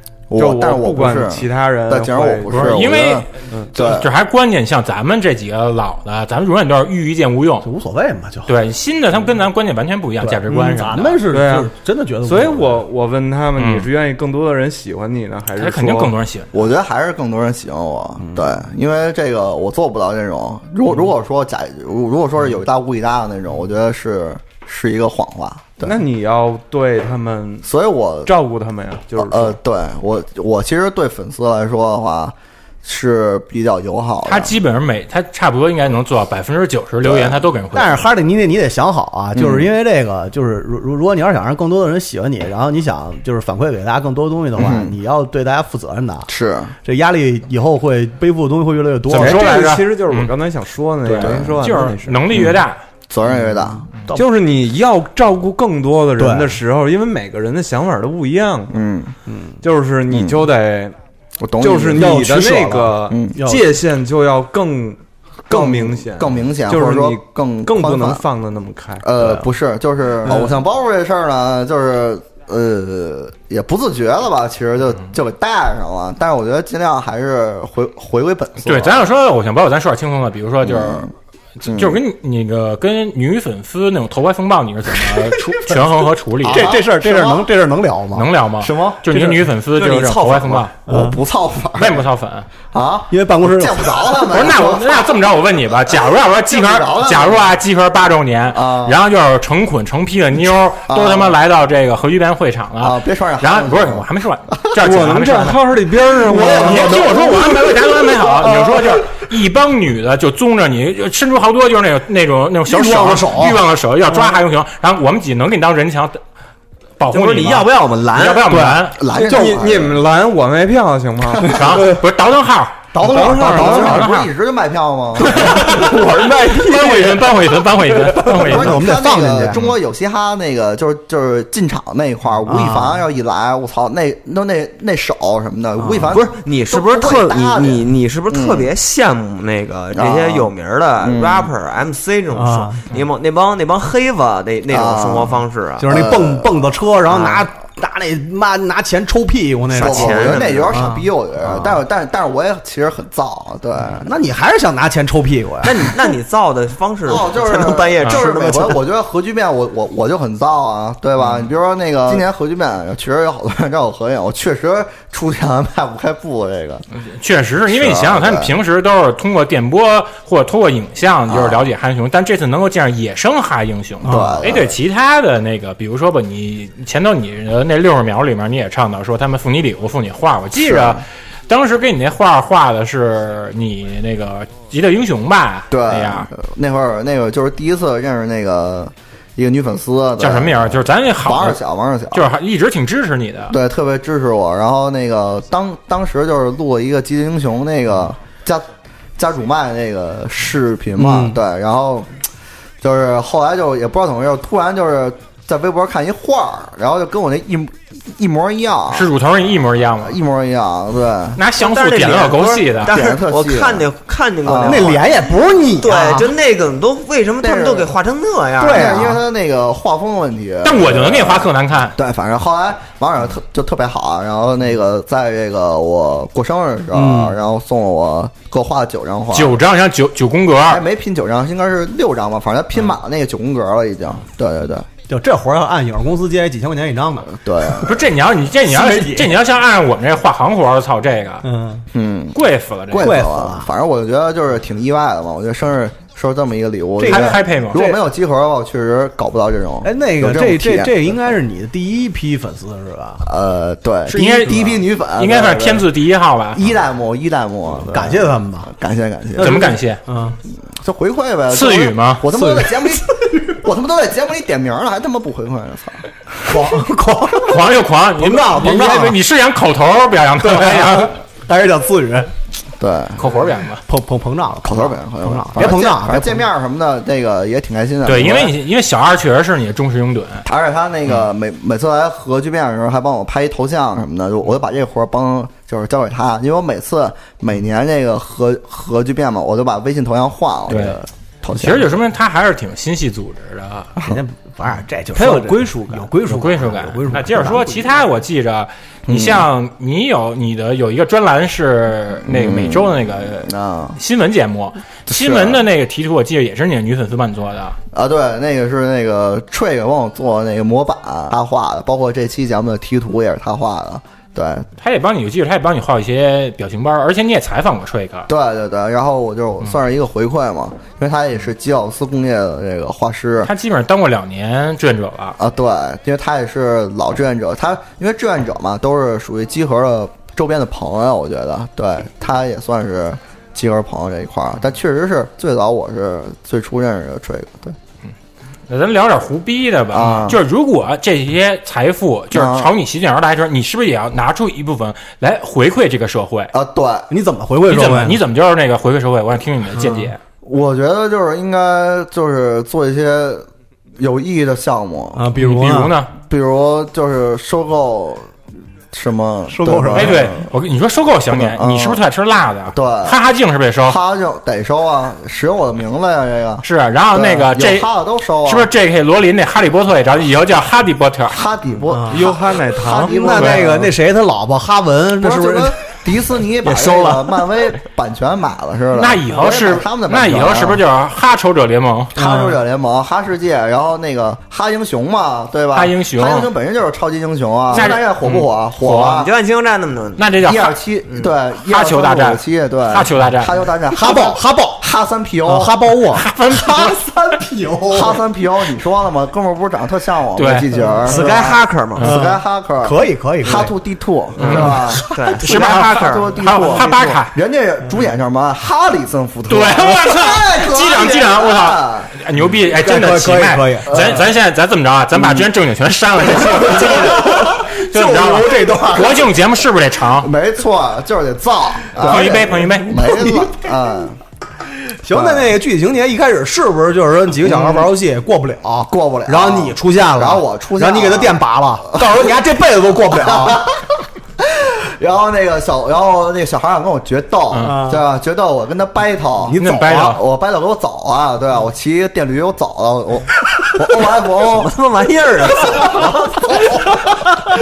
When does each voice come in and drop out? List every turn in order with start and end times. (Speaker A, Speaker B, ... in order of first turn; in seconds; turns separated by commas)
Speaker A: 0.3-4.1, Speaker B: 0.3-2.8, Speaker C: 2.5-7.7, Speaker D: 7.6-8.5, Speaker C: 8.4-11.3, Speaker D: 10.2-12.8, Speaker B: 11.3-11.7, Speaker B: 12.2-16.1, Speaker C: 13.6-13.9, Speaker C: 15.6-16.5, Speaker A: 16.5-26.0, Speaker B: 25.8-27.7, Speaker A: 27.6-28.3, Speaker B: 28.2-29.6, Speaker A: 29.1-34.5, Speaker C: 34.2-38.1, Speaker A: 37.0-37.5, Speaker D: 37.7-46.3, Speaker A: 39.3-39.7, Speaker A: 44.5-45.0, Speaker A: 46.3-46.7, Speaker D: 46.8-49.5, Speaker C: 49.1-50.3, Speaker B: 49.1-52.6, Speaker C: 51.0-52.8, Speaker A: 51.2-51.5, Speaker A: 53.1-53.8, Speaker B: 54.1-58.8, Speaker D: 56.2-56.6, Speaker A: 58.7-59.1, Speaker D: 59.3-59.5, Speaker B: 59.6-61.0, Speaker A: 60.1-60.4, Speaker A: 61.4-62.1, Speaker B: 61.6-69.1, Speaker D: 61.9-63.7, Speaker A: 63.1-63.4, Speaker A: 65.5-68.2, Speaker A: 69.0-79.1, Speaker D: 70.2-70.5, Speaker C: 78.6-86.8, Speaker A: 80.6-81.1, Speaker A: 81.6-82.0, Speaker A: 86.4-87.5, Speaker D: 86.5-88.3, Speaker C: 88.1-90.8, Speaker A: 88.6-89.1, Speaker E: 89.7-90.7, Speaker A: 90.9-92.1, Speaker D: 90.9-91.2, Speaker C: 91.8-92.5, Speaker A: 92.7-95.3, Speaker D: 93.1-94.3, Speaker C: 94.3-105.8, Speaker A: 96.5-97.5, Speaker A: 98.5-99.0, Speaker A: 100.9-101.4, Speaker A: 102.8-104.0, Speaker B: 104.8-107.4, Speaker D: 106.3-107.5, Speaker C: 106.3-116.2, Speaker D: 112.7-113.6, Speaker C: 117.0-119.0, Speaker E: 117.1-118.5, Speaker D: 118.5-118.8, Speaker A: 118.9-120.0, Speaker B: 119.1-121.8, Speaker C: 121.4-124.3, Speaker D: 122.9-124.0, Speaker B: 123.0-123.9, Speaker A: 123.1-125.5, Speaker B: 125.3-128.2, Speaker C: 125.3-128.8, Speaker D: 128.2-129.6, Speaker A: 128.3-138.7, Speaker D: 132.4-133.0, Speaker D: 135.8-136.1, Speaker E: 136.1-145.9, Speaker A: 139.9-141.5, Speaker D: 142.3-142.8, Speaker A: 144.7-146.6, Speaker D: 145.8-151.7, Speaker E: 147.1-147.4, Speaker E: 149.7-150.8, Speaker A: 149.8-154.1, Speaker D: 154.0-155.9, Speaker E: 155.6-158.8, Speaker A: 157.1-166.8, Speaker C: 166.9-186.3, Speaker A: 167.7-168.5, Speaker A: 171.3-171.7, Speaker D: 174.0-174.4, Speaker A: 174.0-174.8, Speaker A: 180.6-181.0, Speaker A: 185.7-192.3, Speaker C: 190.2-191.6, Speaker C: 192.1-193.6, Speaker A: 193.5-198.7, Speaker A: 199.2-202.1, Speaker D: 201.0-201.4, Speaker A: 202.8-209.1, Speaker C: 208.9-210.2, Speaker A: 210.0-211.4, Speaker C: 211.3-212.9, Speaker E: 211.6-215.2, Speaker A: 212.8-213.9, Speaker A: 214.4-215.0, Speaker D: 214.6-216.3, Speaker E: 215.8-219.1, Speaker A: 217.4-217.9, Speaker D: 218.6-219.2, Speaker A: 218.6-229.6, Speaker C: 220.6-222.0, Speaker D: 226.9-227.3, Speaker C: 229.3-230.8, Speaker A: 230.7-234.9, Speaker D: 235.1-237.3, Speaker A: 237.3-238.0, Speaker C: 237.8-241.5, Speaker D: 238.7-239.3, Speaker D: 241.4-241.8, Speaker A: 241.9-251.2, Speaker C: 242.3-243.2, Speaker D: 243.0-243.7, Speaker D: 247.0-247.9, Speaker C: 247.0-247.9, Speaker D: 249.8-253.2, Speaker A: 253.2-255.9, Speaker C: 254.1-256.6, Speaker D: 254.1-254.8, Speaker A: 256.5-259.7, Speaker D: 257.9-258.7, Speaker D: 259.4-260.4, Speaker C: 259.4-260.0, Speaker A: 260.6-266.7, Speaker C: 261.5-262.3, Speaker D: 262.3-263.6, Speaker D: 266.5-269.2, Speaker C: 267.4-271.1, Speaker D: 270.4-272.3, Speaker A: 272.8-273.3, Speaker C: 273.2-273.8, Speaker D: 273.9-276.4, Speaker A: 274.6-278.6, Speaker C: 278.1-280.4, Speaker A: 280.4-291.9, Speaker C: 290.7-291.0, Speaker C: 291.5-293.9, Speaker D: 294.0-298.0, Speaker B: 295.1-296.1, Speaker C: 296.2-307.8, Speaker A: 299.1-299.5, Speaker A: 302.2-304.0, Speaker A: 305.1-305.6, Speaker A: 307.9-314.7, Speaker C: 314.8-318.3, Speaker A: 318.3-323.5, Speaker C: 323.4-325.4, Speaker A: 325.4-337.8, Speaker C: 338.7-346.5, Speaker A: 339.9-340.4, Speaker A: 342.3-342.7, Speaker A: 346.5-347.1, Speaker D: 347.1-348.2, Speaker C: 347.6-350.2, Speaker A: 350.4-353.5, Speaker A: 354.0-355.3, Speaker D: 355.1-356.0, Speaker C: 355.4-356.1, Speaker A: 356.2-358.3, Speaker A: 358.9-360.4, Speaker D: 359.5-360.2, Speaker C: 359.9-364.0, Speaker A: 361.3-362.0, Speaker A: 362.7-363.2, Speaker A: 363.8-368.7, Speaker C: 366.6-367.9, Speaker C: 368.4-371.4, Speaker A: 371.3-373.7, Speaker D: 371.9-372.2, Speaker B: 372.1-373.9, Speaker D: 373.1-375.8, Speaker A: 375.2-380.8, Speaker D: 376.6-377.5, Speaker C: 378.9-382.1, Speaker D: 382.1-382.6, Speaker A: 382.1-389.3, Speaker C: 385.7-386.5, Speaker C: 387.7-389.0, Speaker E: 388.8-390.3, Speaker C: 390.2-390.8, Speaker A: 390.4-395.8, Speaker E: 391.1-391.3, Speaker C: 391.6-393.5, Speaker D: 393.9-394.8, Speaker D: 395.4-398.2, Speaker C: 396.1-397.1, Speaker A: 397.9-401.4, Speaker C: 400.4-400.7, Speaker E: 401.1-402.0, Speaker D: 401.1-403.7, Speaker A: 402.0-412.1, Speaker E: 404.4-406.9, Speaker C: 404.4-404.8, Speaker D: 404.5-405.0, Speaker C: 405.4-407.3, Speaker C: 409.5-420.3, Speaker D: 412.7-414.1, Speaker A: 413.9-414.2, Speaker A: 415.1-415.5, Speaker D: 416.4-419.3, Speaker A: 420.2-424.2, Speaker C: 422.0-423.0, Speaker D: 423.0-423.5, Speaker D: 425.0-433.7, Speaker A: 425.1-425.5, Speaker A: 427.4-427.9, Speaker A: 428.9-432.3, Speaker A: 433.1-444.7, Speaker C: 437.5-437.8, Speaker D: 437.6-438.0, Speaker D: 439.5-440.2, Speaker C: 439.6-440.2, Speaker E: 444.4-446.1, Speaker A: 445.7-446.9